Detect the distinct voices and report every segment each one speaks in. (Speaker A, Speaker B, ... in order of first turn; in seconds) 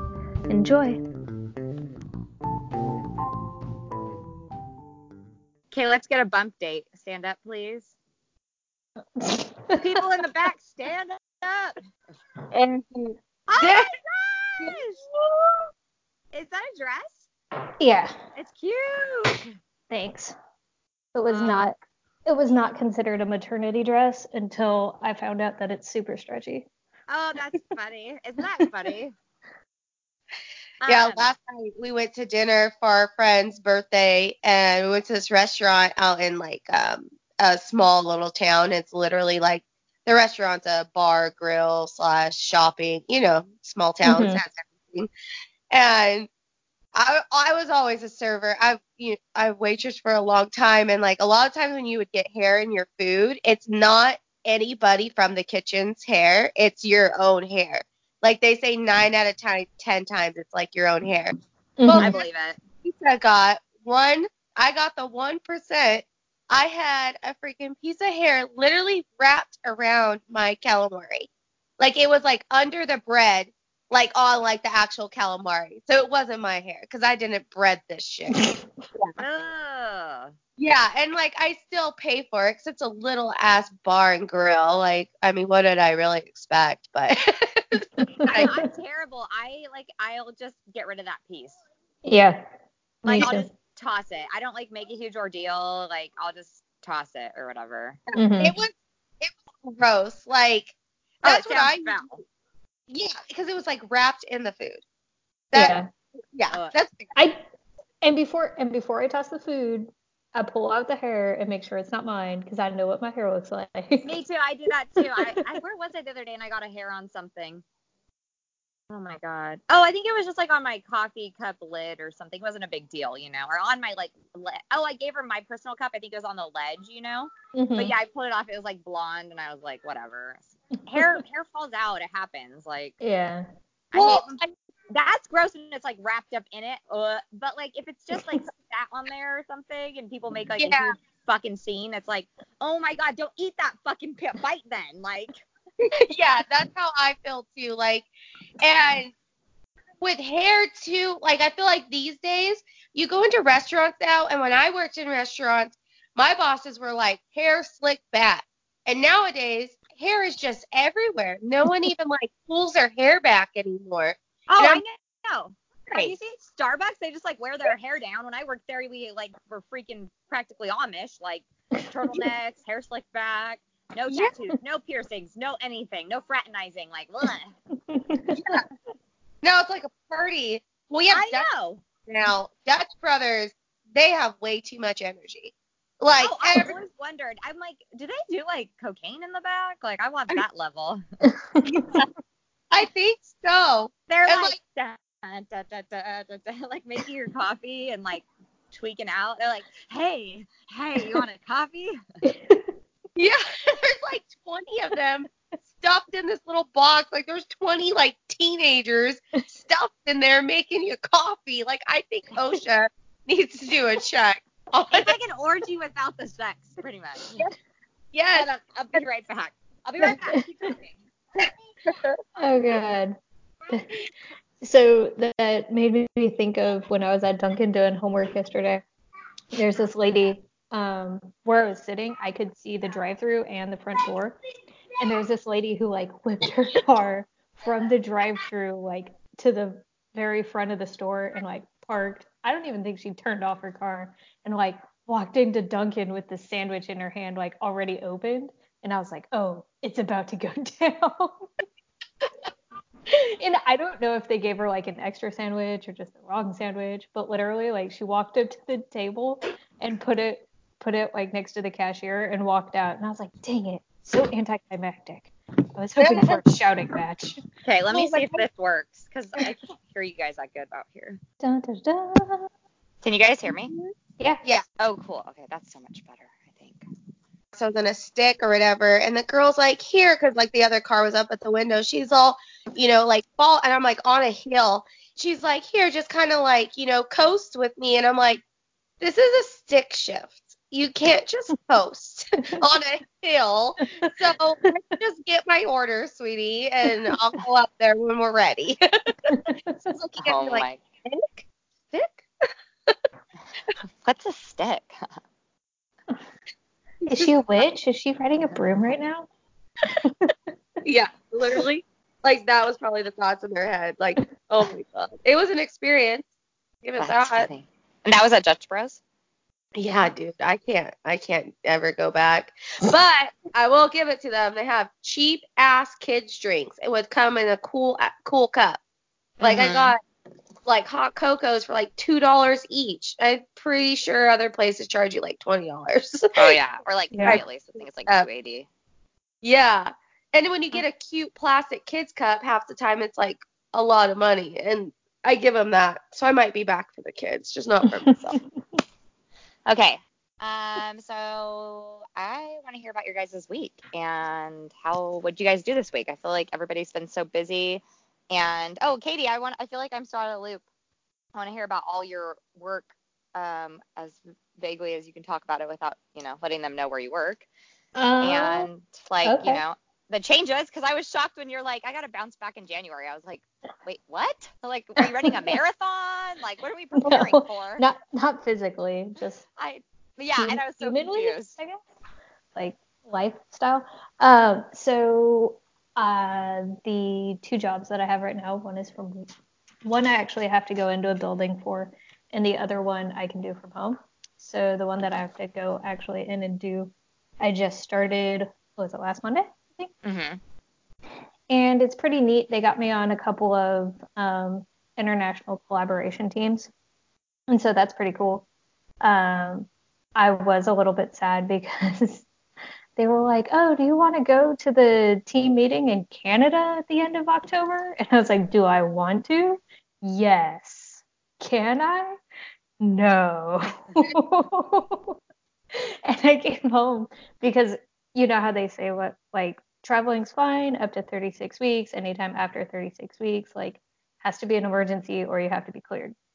Speaker A: 0.5-1.0, 9.2-9.8, 17.8-18.1, 19.9-20.4, 21.1-21.8, 22.3-26.7, 44.0-44.4, 61.8-62.2, 78.3-78.7, 88.0-88.7, 92.0-92.5, 93.0-93.5, 98.2-98.5, 105.5-105.9, 107.2-107.4, 108.0-114.1, 127.5-128.0, 133.0-133.5, 171.8-172.3, 177.9-178.6, 191.3-191.9, 202.2-202.7, 220.0-220.7, 222.4-223.2, 224.6-228.8, 229.5-234.4, 235.0-251.5, 253.1-267.4, 271.4-272.5, 274.2-274.4, 293.8-294.1, 299.3-299.8, 307.1-309.3, 310.0-310.4, 337.1-337.4, 348.1-348.6, 368.0-368.7, 369.2-369.6, 375.0-375.6, 377.0-379.4, 380.4-381.8, 382.6-389.3, 389.9-399.9, 401.5-406.7, 407.5-408.4, 409.0-412.3, 413.0-422.2, 422.8-425.2, 425.7-436.1
Speaker B: 5.7-7.9, 9.8-11.8, 13.5-15.0, 16.3-17.3, 18.4-19.5, 21.3-21.7, 27.1-29.1, 30.8-31.3, 62.0-62.6, 79.2-80.3, 88.2-91.6, 93.0-98.0, 101.2-102.2, 114.0-117.6, 118.9-132.9, 133.9-145.4, 164.5-177.5, 181.1-181.8, 186.2-191.0, 194.1-202.0, 214.9-217.4, 218.3-221.0, 267.6-271.2, 273.0-273.7, 274.8-276.9, 300.2-300.8, 304.0-305.1, 317.0-319.0, 329.4-329.9, 336.4-338.7, 349.7-360.6, 361.4-367.5, 368.2-377.8, 379.6-381.6, 400.1-400.4
Speaker C: 12.5-13.9, 30.9-45.1, 45.7-46.3, 47.0-61.3, 61.9-62.2, 62.8-78.4, 80.6-88.5, 98.1-102.2, 102.9-104.8, 105.5-105.8, 106.3-107.1, 133.9-134.3, 140.6-140.9, 145.9-148.1, 148.6-149.1, 150.0-164.8, 178.3-178.6, 179.4-181.5, 182.1-186.8, 191.7-192.0, 192.7-194.6, 203.2-205.3, 205.8-215.2, 218.1-219.1, 221.9-222.2, 266.0-266.4, 267.9-268.4, 277.5-288.4, 289.0-298.8, 299.9-303.0, 307.1-307.3, 310.8-316.2, 316.8-317.5, 319.8-328.8, 329.4-330.0, 330.7-336.6, 339.4-348.4